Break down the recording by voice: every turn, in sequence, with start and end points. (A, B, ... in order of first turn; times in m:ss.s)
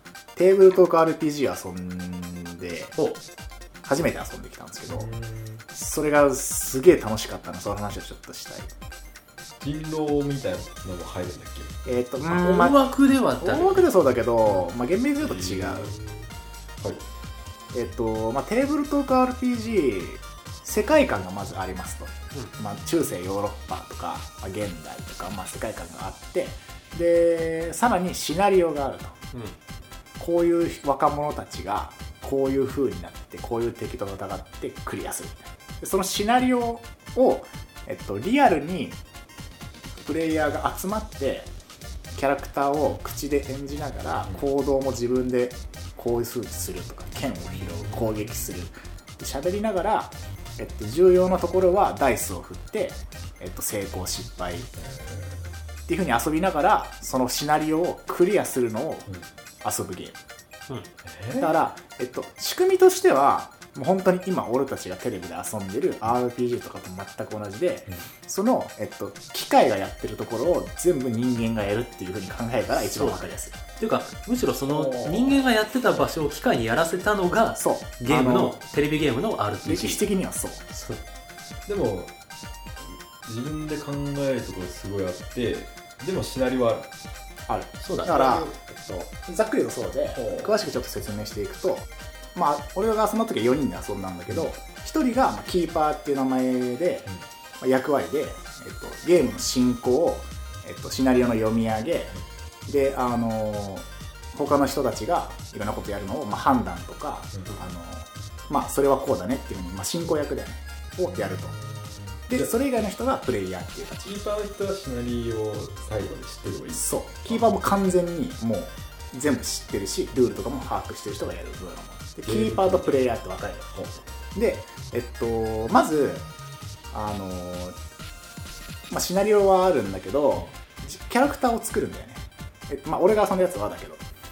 0:00.3-0:02.9 A
0:03.8-0:05.1 A
0:04.9-0:05.6 B
0:05.7-0:08.7 A
0:09.6-0:11.8 B
0:11.8-0:12.8 A
0:12.3-0:13.9 C
0:13.4-0:15.9 A
0:15.2-0:16.3 B
0:17.7-0:29.2 A
0:30.2-0:39.0 A
0:40.0-0:41.5 A
0:42.1-0:54.7 A
0:47.6-0:48.2 B
0:54.8-0:55.5 B
0:55.9-0:59.1 A
0:59.6-1:00.2 A
1:01.0-1:01.5 B
1:01.4-1:13.6 A
1:12.8-1:20.0 C
1:14.7-1:15.4 A
1:17.6-1:18.6 A
1:19.6-1:20.7 A
1:20.7-1:21.0 C
1:21.6-1:22.1 B
1:23.2-1:26.9 B
1:27.5-1:42.2 A
1:27.8-1:28.2 C
1:28.0-1:28.5 B
1:30.1-1:30.6 B
1:42.7-1:51.5 A
1:51.0-1:52.5 B
1:52.3-1:54.2 A
1:54.0-1:57.8 B
1:56.7-2:03.7 A
2:02.2-2:03.1 B
2:03.7-2:04.0 B
2:04.3-2:06.2 A
2:06.9-2:07.8 A
2:08.9-2:14.0 A